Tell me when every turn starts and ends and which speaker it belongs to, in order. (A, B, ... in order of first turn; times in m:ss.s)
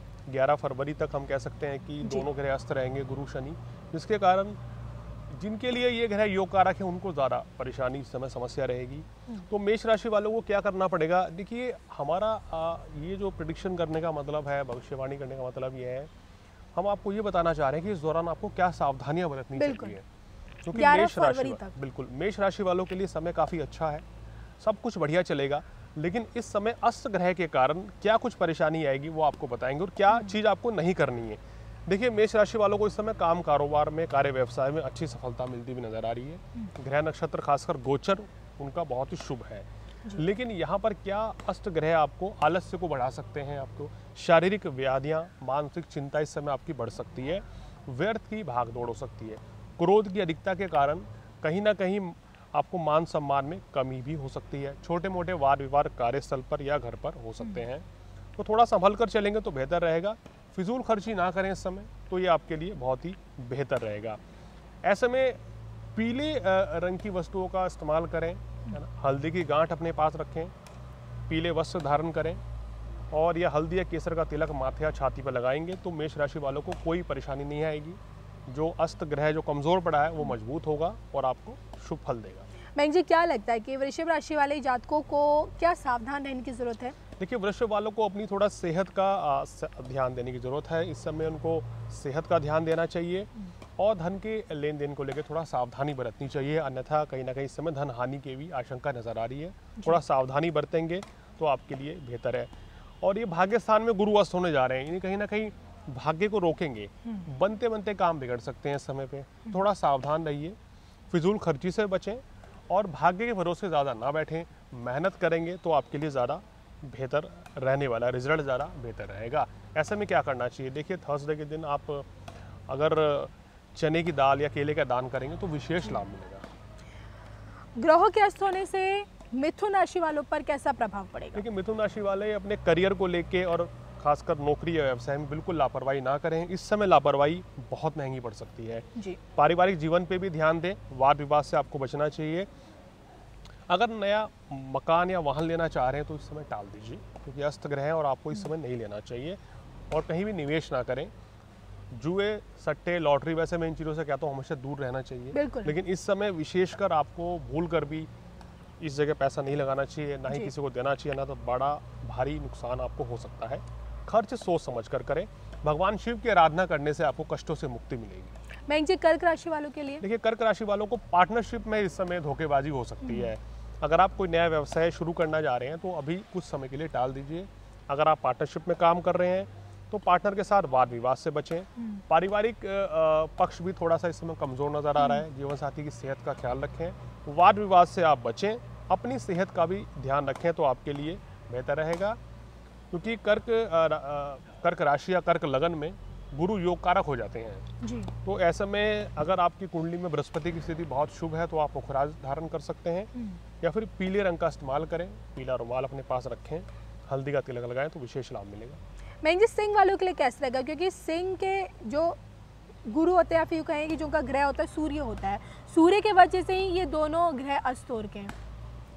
0:00.3-0:04.6 A
0:05.3-0:16.1 A
0:16.8-0:20.0 A
0:19.6-0:20.0 B
0:20.6-0:24.1 A
0:20.7-0:21.7 B
0:24.6-0:57.9 A
0:58.4-1:04.2 A
1:04.8-1:05.4 A
1:05.9-1:10.5 A
1:11.3-1:12.4 A
1:13.1-1:22.5 A
1:22.8-1:27.0 B
1:27.2-1:50.6 A
1:51.1-2:02.1 A
2:02.7-2:06.5 A
2:07.8-2:11.4 B
2:11.3-2:22.5 A
2:23.7-2:29.4 A
2:29.9-2:31.1 A
2:31.9-2:38.1 A
2:35.3-2:35.8 B
2:38.8-2:48.4 A
2:48.7-2:50.0 B
2:50.0-3:12.2 A
2:53.0-2:53.3 B
3:05.0-3:05.2 B
3:12.9-3:17.7 A
3:17.8-3:18.1 B
3:18.2-3:28.8 A
3:29.2-3:32.2 B
3:32.9-3:38.3 B